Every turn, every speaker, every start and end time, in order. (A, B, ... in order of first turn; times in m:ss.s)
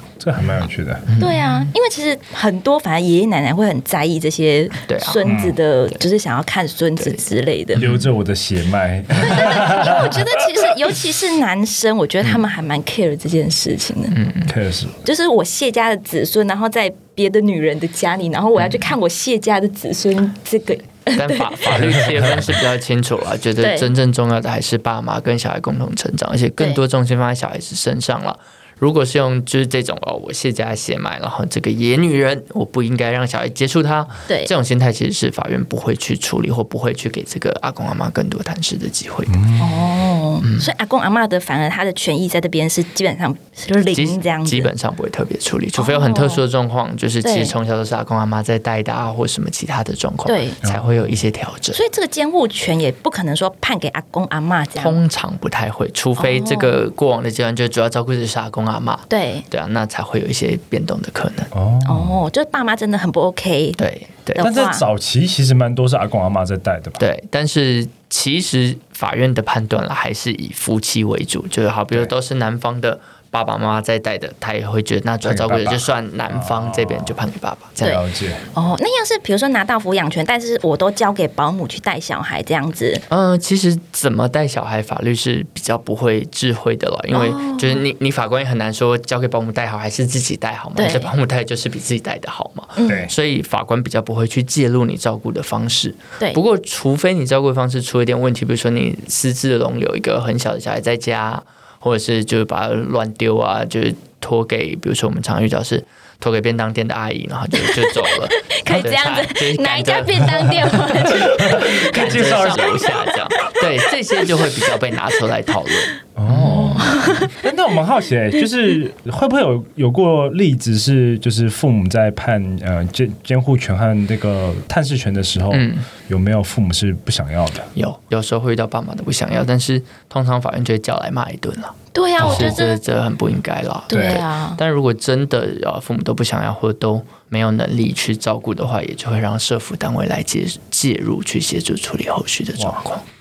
0:00.2-0:01.1 A
0:01.1-0:01.7 B
0:01.2-0:07.8 C
0:04.9-0:05.2 B
0:05.2-0:05.6 A
0:07.8-0:10.6 A
0:09.2-0:14.2 C
0:14.1-0:14.5 B
0:14.5-0:15.0 A
0:15.0-0:21.8 C
0:21.1-0:39.4 B
0:21.8-0:22.5 A
0:23.6-0:23.9 C
0:39.3-0:39.8 A
0:39.6-0:44.7 C
0:40.4-0:40.7 B
0:43.9-0:51.8 B
0:45.8-0:46.4 C
0:47.2-0:47.6 C
0:50.3-0:50.6 C
0:50.6-0:51.1 A
0:51.7-0:55.0 C
0:54.8-1:01.5 B
0:56.2-0:56.8 C
0:59.1-0:59.5 C
1:01.5-1:02.2 A
1:01.8-1:03.8 C
1:03.8-1:04.5 B
1:04.4-1:04.8 C
1:04.4-1:07.0 A
1:07.0-1:18.0 B
1:15.2-1:17.2 A
1:17.8-1:18.4 A
1:17.8-1:23.0 C
1:23.1-1:57.0 B
1:27.1-1:27.8 C
1:30.8-1:31.1 C
1:32.8-1:33.1 C
1:32.9-1:33.1 A
1:47.5-1:54.6 C
1:51.0-1:52.8 A
1:56.2-2:07.7 A
1:56.5-1:57.3 C
2:05.5-2:05.9 B
2:07.8-2:23.0 B
2:11.9-2:12.8 C
2:12.2-2:12.6 A
2:13.9-2:14.6 C
2:13.9-2:14.2 A